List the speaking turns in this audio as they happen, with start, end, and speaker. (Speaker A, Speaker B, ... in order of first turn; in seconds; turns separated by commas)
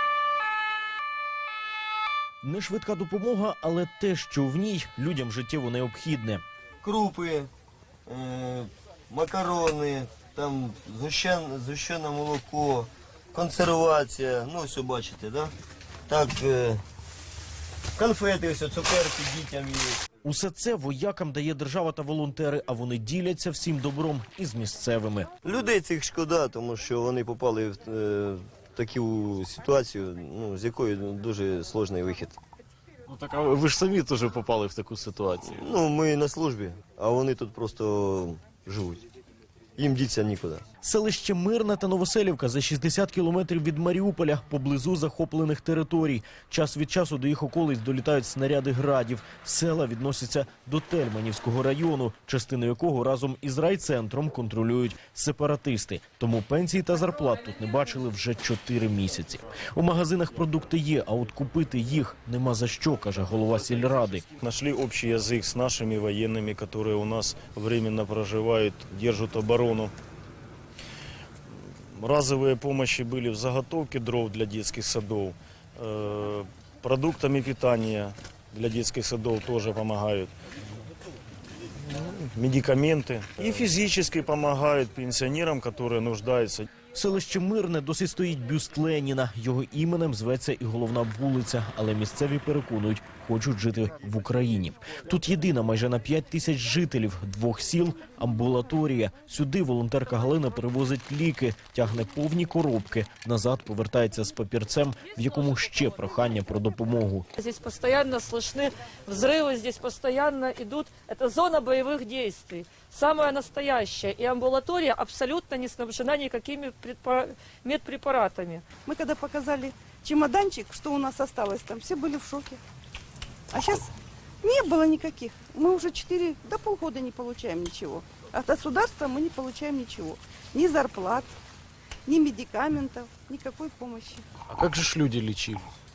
Speaker A: 2.4-6.4, Speaker B: 6.8-7.5, Speaker B: 8.1-15.5, Speaker B: 16.1-16.8, Speaker B: 18.0-20.0, Speaker A: 20.2-25.3, Speaker B: 25.4-32.4, Speaker C: 33.1-35.6, Speaker B: 35.4-39.0, Speaker B: 39.8-40.6, Speaker A: 40.8-64.2, Speaker D: 64.4-69.9, Speaker D: 71.5-80.3, Speaker D: 81.9-86.7, Speaker A: 86.9-107.3, Speaker E: 107.4-118.6, Speaker F: 118.8-122.6, Speaker F: 123.5-123.9, Speaker F: 124.4-131.3, Speaker F: 132.1-134.2, Speaker C: 134.5-135.7